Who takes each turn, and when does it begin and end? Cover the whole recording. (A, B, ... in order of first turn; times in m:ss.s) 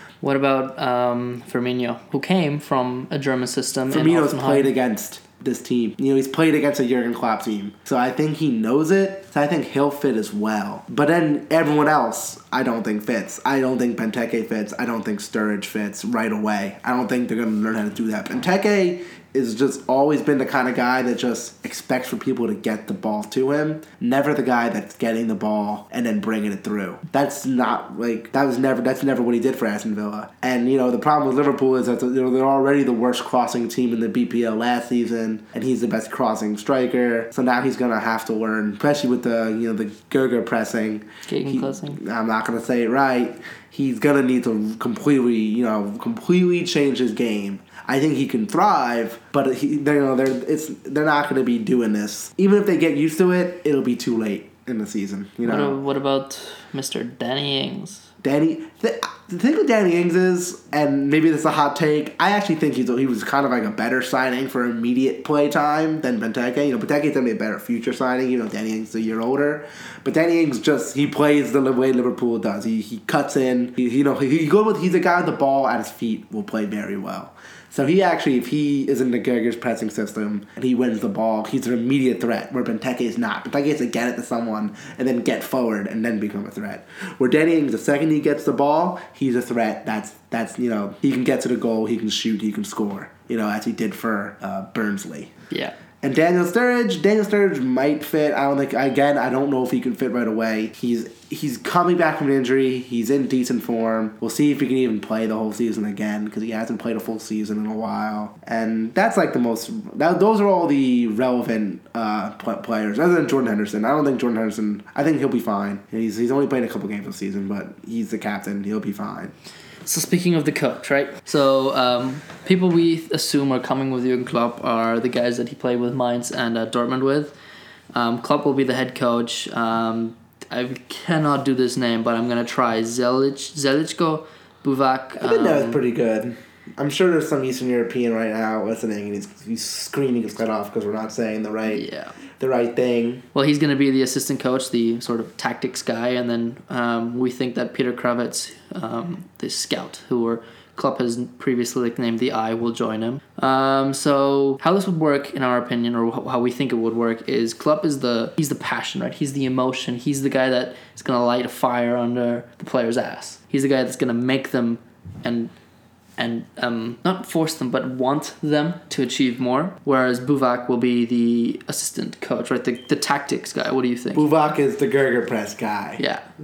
0:00.2-0:04.7 A
0:03.9-0:55.8 B
0:41.3-0:42.0 A
0:55.4-0:58.1 A
0:58.2-1:35.3 B
1:36.0-1:59.3 B
1:59.8-2:07.3 A
2:07.9-2:15.8 A
2:15.2-2:21.8 B
2:21.7-2:22.2 A
2:22.4-2:23.2 B
2:23.3-2:45.5 A
2:46.2-2:54.3 A
2:54.1-2:56.0 B
2:56.0-2:56.2 A